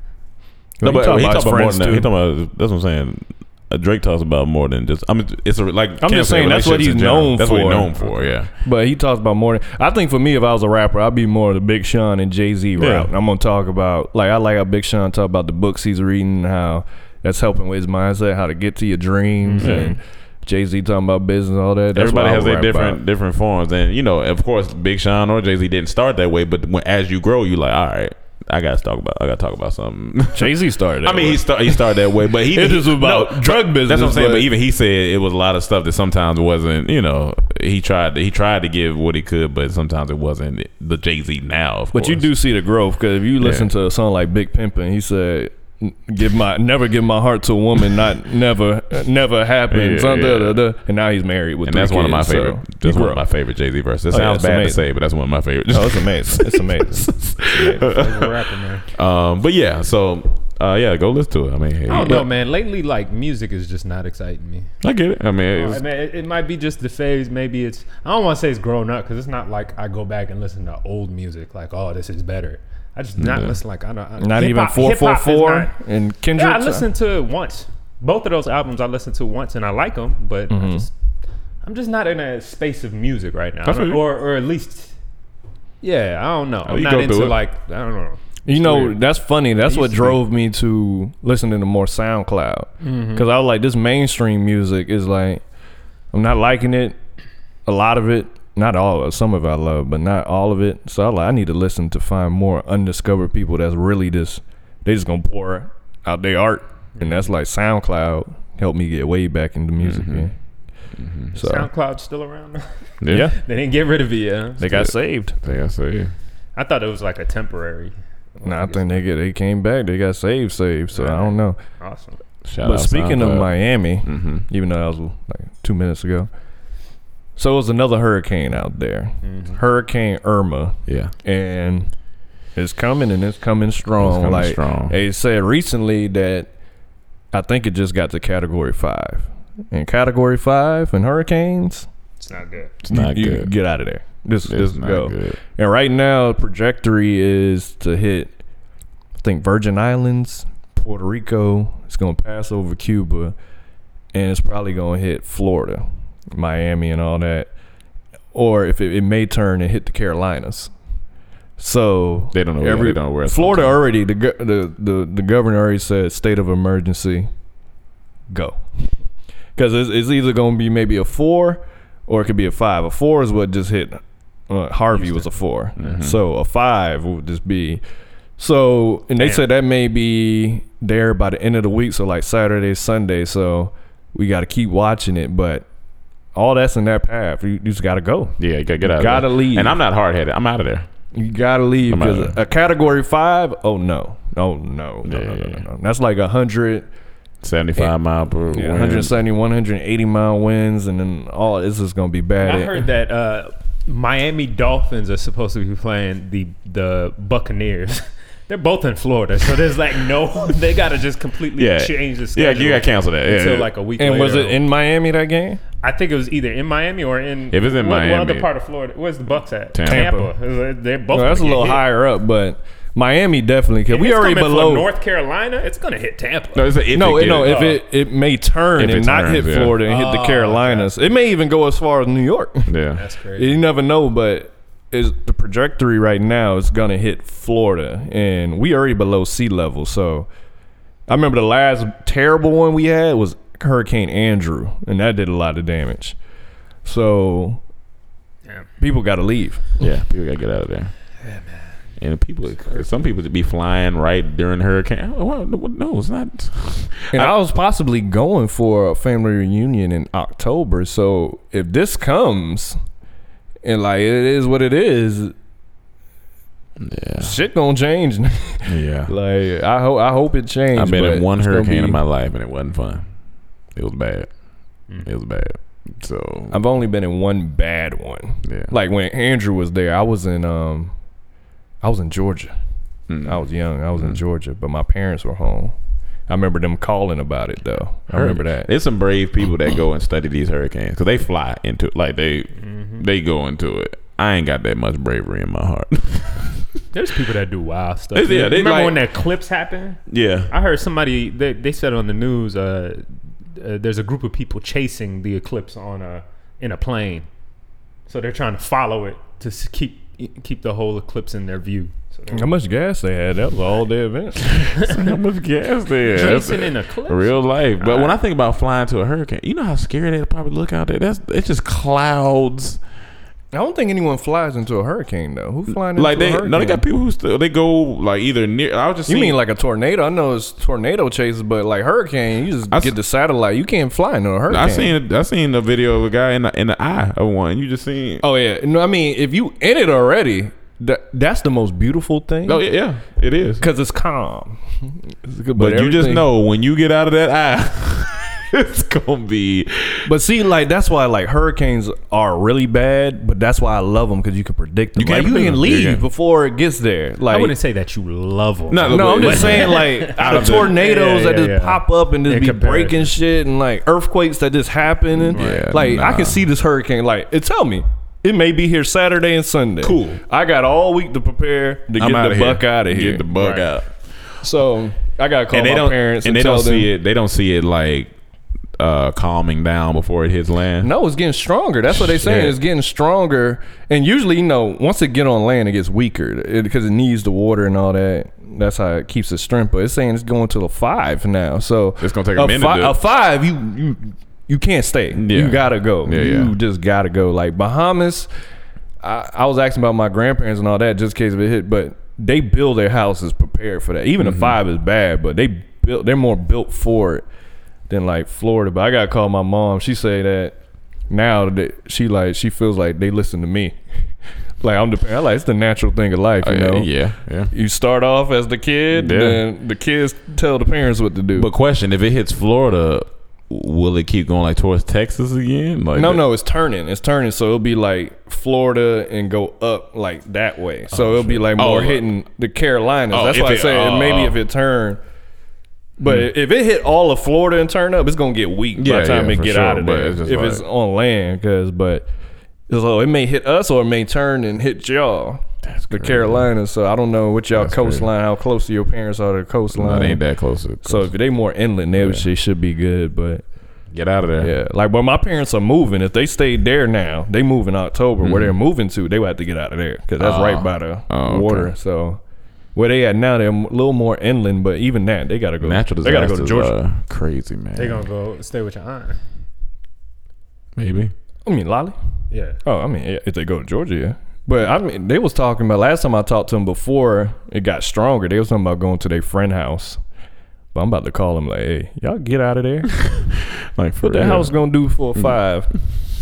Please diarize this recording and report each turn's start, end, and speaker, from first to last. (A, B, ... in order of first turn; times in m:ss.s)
0:00.8-0:02.1 A
0:00.8-0:08.5 B
0:06.0-0:07.9 A
0:08.6-0:23.0 A
0:12.8-0:13.1 B
0:19.4-0:19.9 C
0:19.6-0:20.0 B
0:21.9-0:42.3 B
0:30.3-0:34.5 A
0:41.9-0:53.2 A
0:43.4-0:43.7 B
0:49.7-0:50.6 B
0:51.6-1:02.3 B
0:54.1-0:54.8 A
0:55.7-0:57.8 A
0:57.8-0:58.9 C
1:01.9-1:04.7 C
1:04.8-1:05.8 B
1:05.5-1:15.7 C
1:13.2-1:13.6 B
1:14.2-1:16.8 A
1:16.4-1:20.9 C
1:20.5-1:20.8 A
1:21.6-1:24.9 C
1:23.6-1:24.0 B
1:25.8-1:29.0 C
1:26.6-1:27.4 B
1:28.4-1:35.4 A
1:29.7-1:30.2 C
1:32.8-1:33.2 C
1:36.1-1:37.0 A
1:37.6-1:50.3 A
1:49.8-1:50.3 B
1:51.0-1:51.3 B
1:51.3-1:52.7 C
1:51.4-1:51.7 A
1:53.0-1:53.3 B
1:53.1-1:53.3 A
1:53.3-1:54.9 C
1:54.6-1:55.4 A
1:55.4-1:56.1 B
1:56.6-1:59.0 C
1:58.4-2:01.6 A
2:00.9-2:02.2 C
2:02.4-2:04.4 B
2:02.6-2:06.3 A
2:07.4-2:11.9 A
2:09.2-2:09.6 C
2:10.9-2:11.1 B
2:12.6-2:16.5 A
2:14.0-2:15.0 B
2:17.3-2:21.9 A
2:22.2-2:22.7 C
2:22.8-2:23.5 B
2:22.9-2:28.3 A
2:24.4-2:25.4 B
2:29.2-2:33.3 A
2:34.1-2:37.5 A
2:38.3-2:40.7 A
2:41.6-2:47.3 A
2:42.3-2:43.8 B
2:48.3-2:48.9 A
2:49.6-2:57.8 A
2:54.9-2:55.3 C
2:55.8-2:56.2 B
2:58.4-3:05.6 A
2:59.2-2:59.4 C
3:06.3-3:09.8 A
3:08.4-3:10.9 B
3:11.1-3:16.9 A
3:11.9-3:12.3 B
3:15.0-3:15.6 B
3:17.4-3:19.1 B
3:18.5-3:22.8 A
3:22.4-3:34.6 C
3:31.6-3:33.7 B
3:34.0-3:35.6 A
3:35.8-3:41.8 C
3:37.5-3:38.5 B
3:39.7-3:40.2 B
3:39.8-3:40.3 A
3:41.1-3:44.9 A
3:43.9-3:47.8 C
3:46.5-3:47.8 B
3:46.9-3:52.7 A
3:48.8-3:49.8 B
3:49.8-3:51.0 C
3:52.7-3:53.0 B
3:52.9-3:53.6 C
3:53.4-4:00.3 A
4:01.1-4:06.2 A
4:06.8-4:07.6 A
4:08.8-4:09.8 A
4:09.8-4:10.9 B
4:11.2-4:11.7 C
4:12.0-4:17.3 B
4:17.1-4:22.8 A
4:23.6-4:25.3 A
4:26.8-4:27.4 B
4:27.2-4:32.0 A
4:28.6-4:29.1 B
4:30.7-4:33.0 B
4:33.7-4:34.3 B
4:35.0-4:36.6 B
4:36.5-4:40.9 A
4:38.4-4:38.7 B
4:41.8-4:42.5 A
4:43.1-4:43.4 B
4:43.2-4:45.8 A
4:46.3-4:48.7 A
4:48.1-4:56.8 B
4:52.6-4:53.0 C
4:56.9-5:07.3 C
4:58.1-4:59.0 B
5:00.1-5:00.5 B
5:08.1-5:12.5 C
5:12.3-5:14.8 A
5:14.7-5:22.8 B
5:16.1-5:18.1 C
5:23.5-5:26.8 A
5:25.7-5:29.4 B
5:29.1-5:35.0 A
5:32.7-5:32.9 B
5:34.5-5:38.2 B
5:38.2-5:42.6 A
5:42.4-5:43.6 B
5:43.6-5:46.3 A
5:45.6-5:50.1 B
5:50.0-5:57.5 A
5:55.0-5:56.0 B
5:57.3-6:03.1 C
5:58.7-6:00.8 B
5:58.9-6:13.2 A
6:05.1-6:06.4 B
6:05.3-6:05.7 C
6:09.8-6:10.2 B
6:12.0-6:13.9 B
6:13.3-6:13.7 C
6:14.4-6:16.9 A
6:15.5-6:18.1 B
6:18.8-6:20.9 B
6:20.8-6:38.3 A
6:21.9-6:22.6 B
6:32.0-6:33.0 B
6:35.1-6:36.5 B
6:39.0-6:47.2 A
6:44.2-6:44.5 B
6:47.9-6:50.6 A
6:51.1-6:53.8 A
6:54.6-6:56.9 A
6:56.4-6:57.5 B
6:57.5-7:01.5 A
6:58.9-6:59.4 B
7:01.3-7:06.2 B
7:05.9-7:15.0 A
7:10.9-7:12.0 B
7:13.1-7:14.4 B
7:16.0-7:22.1 A
7:18.8-7:20.6 B
7:22.7-7:30.2 A
7:25.6-7:26.5 B
7:27.5-7:28.1 B
7:29.7-7:31.1 B
7:30.8-7:33.4 A
7:32.0-7:32.3 B
7:33.9-7:34.5 B
7:34.4-7:42.2 A
7:38.2-7:38.5 B
7:40.2-7:41.7 B
7:42.7-7:46.7 A
7:45.6-7:48.0 B
7:47.8-7:49.2 C
7:50.8-7:51.1 B
7:51.4-7:52.0 A
7:52.3-7:52.6 C
7:52.6-8:00.0 A
8:00.7-8:02.9 A
8:03.0-8:04.6 B
8:04.0-8:05.7 A